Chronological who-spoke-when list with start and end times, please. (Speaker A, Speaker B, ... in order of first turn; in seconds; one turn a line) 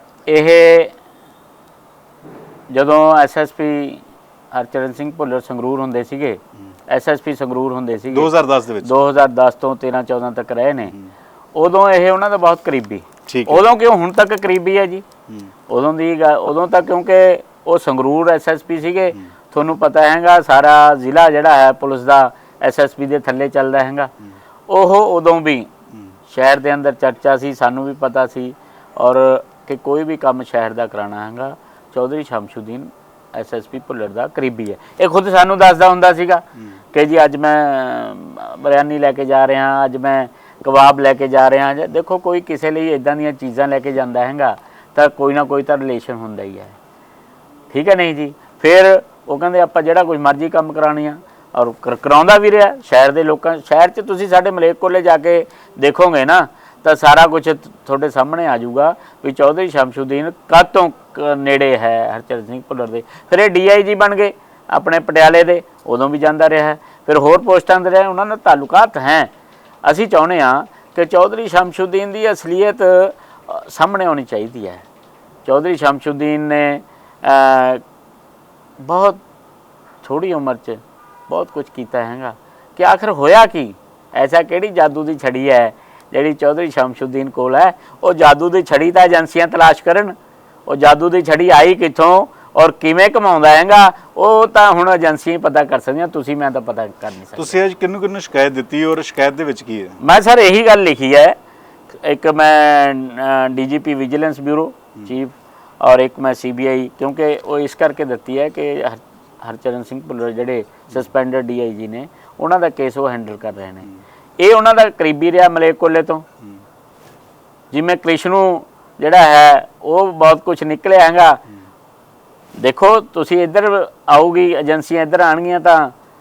Speaker A: 0.3-0.9
Speaker A: 2.7-8.3
Speaker B: 8.1-8.9
Speaker A: 8.8-10.9
Speaker A: 11.5-15.0
Speaker B: 13.3-13.6
Speaker A: 15.7-24.1
Speaker A: 24.7-25.7
Speaker A: 26.3-46.8
Speaker A: 47.7-69.3
Speaker A: 69.8-74.8
Speaker A: 75.5-77.8
Speaker A: 78.8-79.2
Speaker A: 80.0-90.2
Speaker A: 90.7-97.6
Speaker B: 97.4-100.0
Speaker A: 100.0-101.4
Speaker A: 102.0-113.9
Speaker A: 114.4-116.2
Speaker A: 117.7-121.4
Speaker A: 122.6-125.9